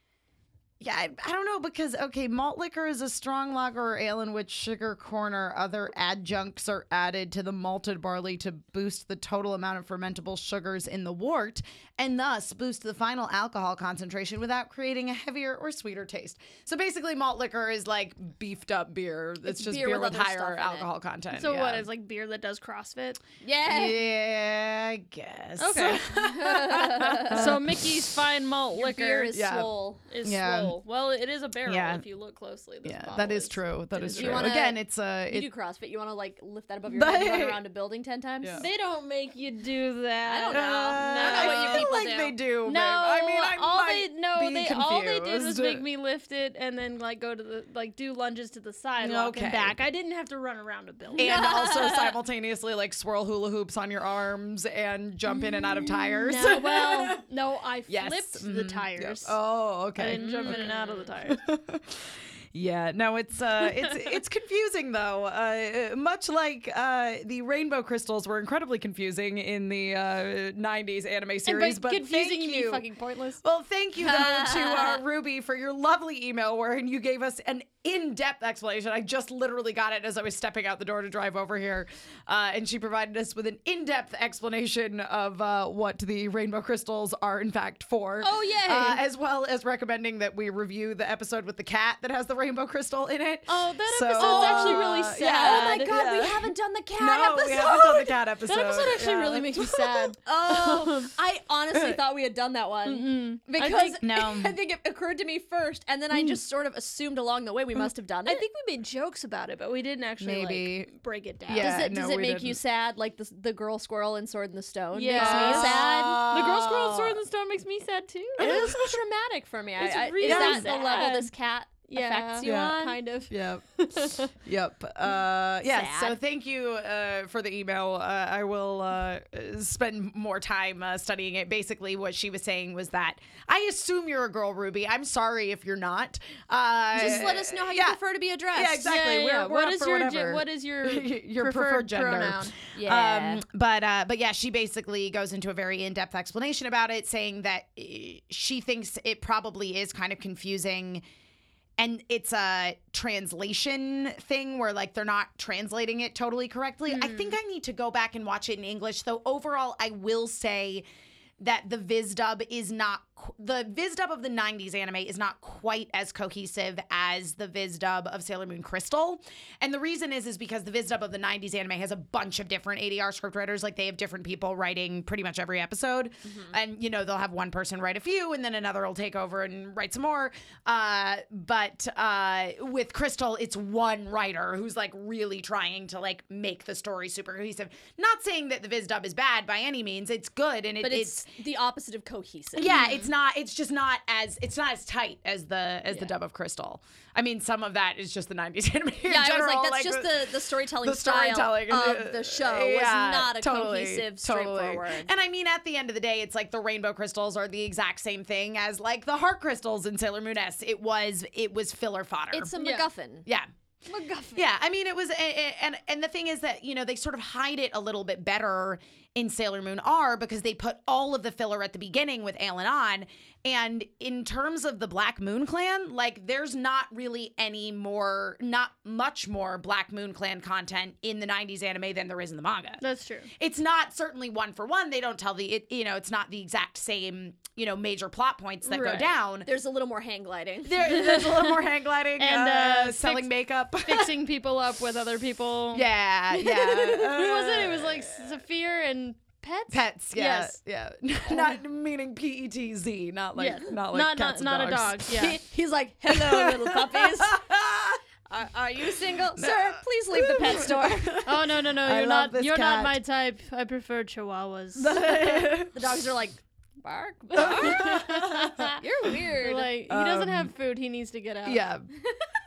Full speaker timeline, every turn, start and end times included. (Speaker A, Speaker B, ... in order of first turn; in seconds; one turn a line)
Speaker A: 0.8-21.9
Speaker B: 19.4-20.9
Speaker C: 21.3-23.2
Speaker B: 23.4-23.9
Speaker A: 23.7-28.1
Speaker C: 25.6-26.0
Speaker B: 26.1-27.6
Speaker C: 27.3-29.5
Speaker B: 28.7-30.0
Speaker A: 29.3-29.7
Speaker C: 30.1-34.5
Speaker A: 30.2-30.8
Speaker A: 31.6-32.0
Speaker A: 32.8-35.5
Speaker B: 34.1-34.8
Speaker B: 35.3-38.7
Speaker A: 36.9-37.6
Speaker A: 38.4-38.7
Speaker C: 38.6-41.9
Speaker B: 40.2-42.4
Speaker A: 40.5-45.8
Speaker C: 42.6-51.7
Speaker A: 49.0-49.8
Speaker B: 51.1-52.2
Speaker A: 51.1-57.2
Speaker C: 55.3-59.4
Speaker A: 57.9-60.7
Speaker C: 60.0-61.4
Speaker B: 60.2-61.1
Speaker A: 61.2-72.8
Speaker C: 63.6-64.2
Speaker C: 71.5-73.4
Speaker A: 73.4-100.1
Speaker B: 74.0-75.0
Speaker C: 88.2-89.0
Speaker C: 93.5-95.9
Speaker B: 94.2-98.0
Speaker C: 97.6-101.1
Speaker B: 100.2-108.4
Speaker C: 102.8-104.0
Speaker A: 104.0-104.5
Speaker A: 106.1-106.4
Speaker C: 108.3-111.9
Speaker A: 110.2-110.9
Speaker A: 111.5-112.6
Speaker B: 111.6-116.2
Speaker C: 114.9-118.7
Speaker A: 115.2-117.2
Speaker B: 118.4-123.3
Speaker A: 118.4-119.0
Speaker C: 119.8-121.3
Speaker A: 120.2-121.0
Speaker C: 121.9-123.0
Speaker A: 122.4-123.6
Speaker C: 123.8-124.3
Speaker A: 124.3-138.0
Speaker B: 125.6-126.2
Speaker B: 136.9-138.9
Speaker A: 138.5-151.0
Speaker C: 138.8-142.6
Speaker B: 142.7-143.4
Speaker A: 151.8-160.8
Speaker C: 156.9-157.4
Speaker A: 161.4-191.3
Speaker B: 176.2-176.5
Speaker B: 190.8-192.9
Speaker A: 192.6-200.3
Speaker B: 199.1-205.1
Speaker A: 200.8-212.5
Speaker B: 212.3-213.2
Speaker C: 212.5-212.9
Speaker B: 213.9-214.5
Speaker A: 214.3-232.8
Speaker C: 232.8-233.3
Speaker A: 233.4-239.5
Speaker C: 238.6-239.1
Speaker B: 239.4-241.0
Speaker A: 240.6-244.1
Speaker C: 240.9-241.7
Speaker C: 242.2-245.9
Speaker A: 245.7-248.2
Speaker C: 246.4-250.6
Speaker A: 249.7-255.2
Speaker C: 251.3-251.5
Speaker C: 253.4-255.4
Speaker B: 255.1-257.4
Speaker A: 256.1-258.0
Speaker B: 258.3-261.1
Speaker A: 259.3-263.0
Speaker C: 261.2-265.1
Speaker A: 264.8-265.8
Speaker B: 265.0-269.7
Speaker A: 267.4-268.7
Speaker C: 267.4-268.8
Speaker C: 269.4-271.6
Speaker A: 269.9-270.5
Speaker A: 271.4-271.9